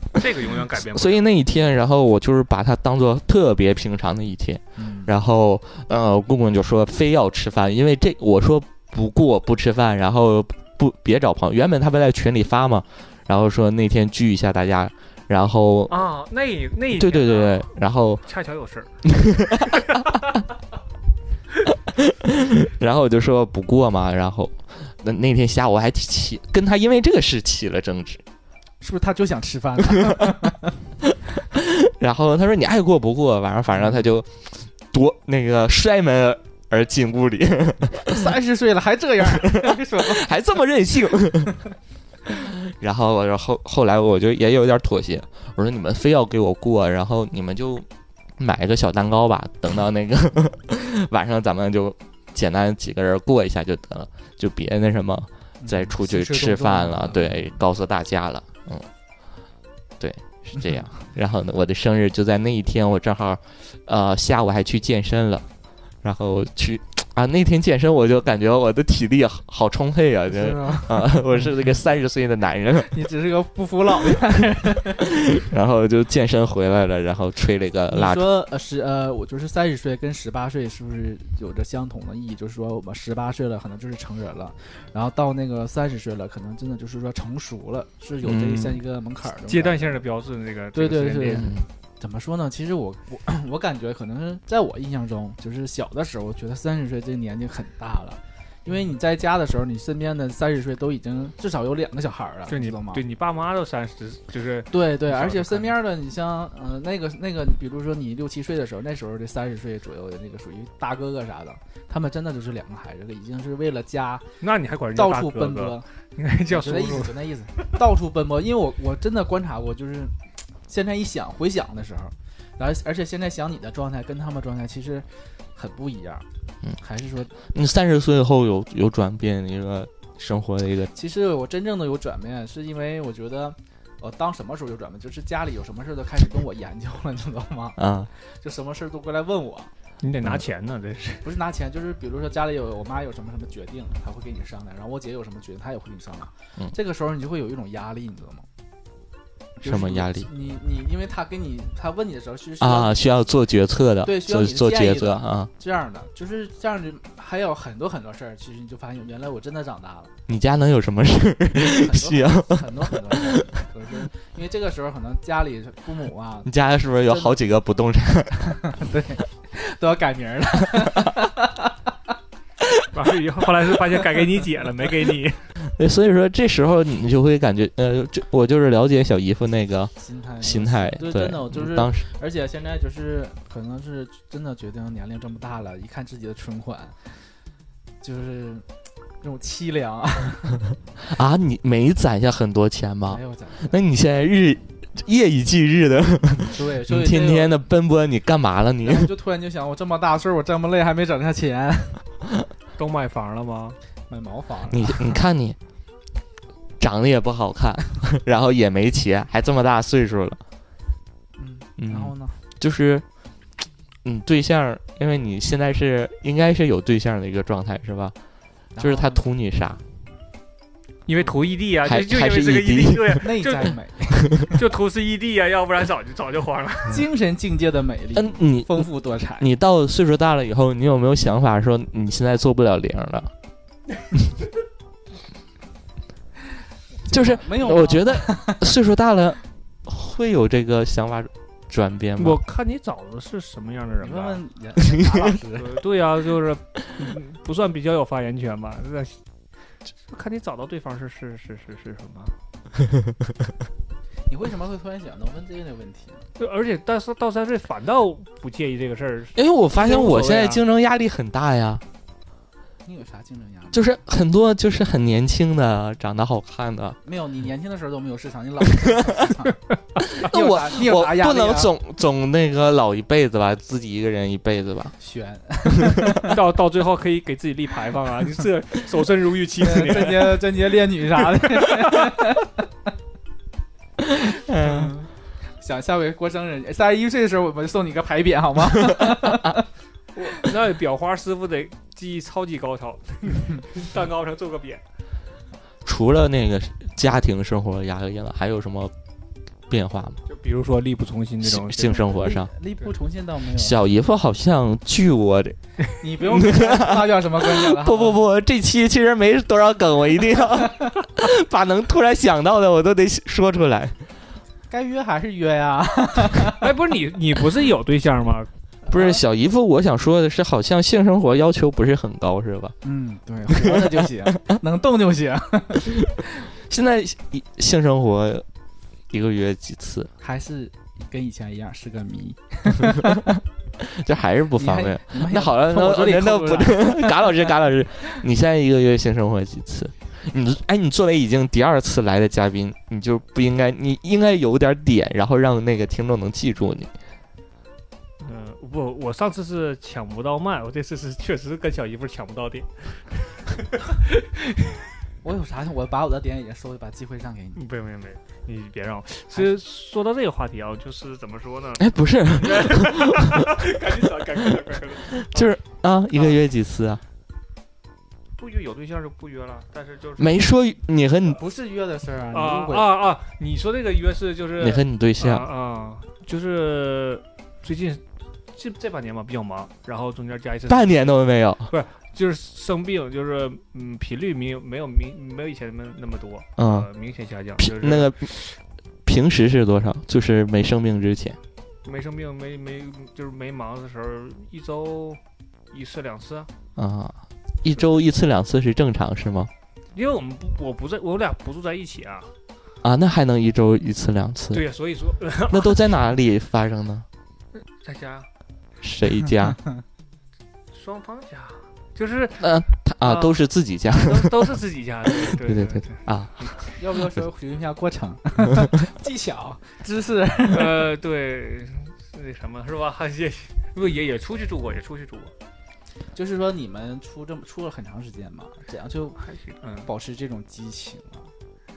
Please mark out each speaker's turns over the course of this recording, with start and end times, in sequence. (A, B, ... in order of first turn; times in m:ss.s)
0:00.1-0:01.3 A
0:00.9-0:16.0 B
0:04.8-0:05.1 C
0:15.9-0:17.7 A
0:16.9-0:18.2 B
0:18.2-0:18.9 A
0:19.0-0:19.8 B
0:19.5-0:20.3 A
0:21.9-0:28.2 B
0:28.8-0:30.8 C
0:31.5-0:38.3 B
0:38.0-0:40.3 C
0:39.2-0:41.6 B
0:42.3-0:47.9 B
0:48.4-0:58.9 B
0:55.6-0:57.4 C
1:00.0-1:05.4 B
1:06.0-1:12.9 B
1:10.3-1:11.2 C
1:12.9-1:15.0 C
1:15.2-1:18.2 B
1:17.9-1:30.0 C
1:28.2-1:28.8 B
1:29.4-1:31.5 A
1:30.7-1:43.0 C
1:31.4-1:31.7 B
1:42.5-1:45.8 A
1:44.7-1:54.2 C
1:54.4-1:57.1 A
1:54.9-1:55.8 C
1:56.5-2:00.1 C
2:00.7-2:06.2 C
2:06.8-2:07.3 C
2:07.4-2:10.9 B
2:10.9-2:19.7 C
2:17.8-2:18.1 B
2:20.0-2:21.2 A
2:21.2-2:28.4 C
2:29.6-2:30.3 B
2:29.6-2:33.1 C
2:32.6-2:35.5 B
2:34.0-2:40.1 C
2:40.3-2:43.4 B
2:41.5-2:46.5 C
2:46.4-2:48.6 B
2:47.0-2:47.4 C
2:48.5-2:51.7 C
2:52.9-2:55.4 A
2:55.6-3:02.0 B
3:00.0-3:07.0 C
3:08.0-3:08.6 C
3:09.2-3:10.6 C
3:11.0-3:19.1 B
3:13.1-3:13.8 C
3:16.5-3:17.6 C
3:18.8-3:22.0 C
3:22.8-3:23.8 A
3:24.1-3:25.2 C
3:24.7-3:25.6 B
3:26.8-3:30.4 B
3:31.4-3:32.4 C
3:31.8-3:33.0 B
3:34.0-3:38.1 B
3:38.8-3:39.2 C
3:38.8-3:39.8 B
3:41.1-3:43.7 A
3:41.8-3:43.2 B
3:43.2-3:44.5 C
3:44.5-3:47.0 A
3:46.9-3:49.5 C
3:48.1-3:48.9 B
3:49.4-3:53.3 B
3:57.0-3:58.7 C
3:57.1-4:02.4 B
4:02.2-4:04.4 A
4:04.0-4:05.7 C
4:05.5-4:09.2 A
4:10.0-4:12.4 A
4:14.3-4:16.3 C
4:16.4-4:20.6 A
4:19.3-4:21.8 B
4:22.8-4:23.9 C
4:23.7-4:27.0 B
4:27.0-4:29.6 C
4:30.1-4:31.7 C
4:30.1-4:34.9 B
4:35.0-4:36.4 C
4:36.2-4:40.5 A
4:39.6-4:42.6 C
4:41.5-4:42.1 A
4:44.1-4:44.9 B
4:44.5-4:49.6 C
4:48.9-4:49.5 B
4:50.1-4:54.8 A
4:55.8-4:58.9 B
4:59.7-5:00.2 B
5:00.2-5:02.1 A
5:01.4-5:02.5 B
5:01.9-5:03.8 C
5:03.6-5:05.6 B
5:06.0-5:08.2 C
5:06.2-5:14.0 B
5:14.7-5:16.7 C
5:16.6-5:18.5 A
5:18.9-5:19.2 C
5:18.9-5:22.8 B
5:22.8-5:26.2 C
5:23.5-5:24.2 B
5:26.6-5:28.4 B
5:29.1-5:30.1 B
5:30.2-5:33.4 C
5:33.8-5:46.9 B
5:34.6-5:37.4 C
5:48.2-5:54.8 A
5:55.2-5:57.6 C
5:57.6-6:05.5 A
6:01.8-6:03.5 B
6:05.2-6:07.0 B
6:08.4-6:10.4 A
6:10.2-6:11.4 B
6:11.3-6:12.9 C
6:12.3-6:18.0 A
6:14.6-6:15.4 B
6:18.5-6:21.1 A
6:20.7-6:21.7 B
6:21.7-6:28.5 A
6:26.6-6:26.9 B
6:27.6-6:28.4 B
6:29.0-6:31.4 B
6:31.8-6:35.2 A
6:35.7-6:36.5 A
6:36.8-6:39.5 B
6:39.9-6:42.3 A
6:42.8-6:44.6 B
6:44.5-6:45.8 A
6:45.5-6:47.1 B
6:47.8-6:48.3 A
6:48.8-6:49.6 B
6:50.7-6:56.6 A
6:52.4-6:56.6 B
6:56.8-7:00.9 C
7:00.5-7:05.3 A
7:06.1-7:09.2 C
7:09.2-7:09.9 A
7:09.8-7:11.3 C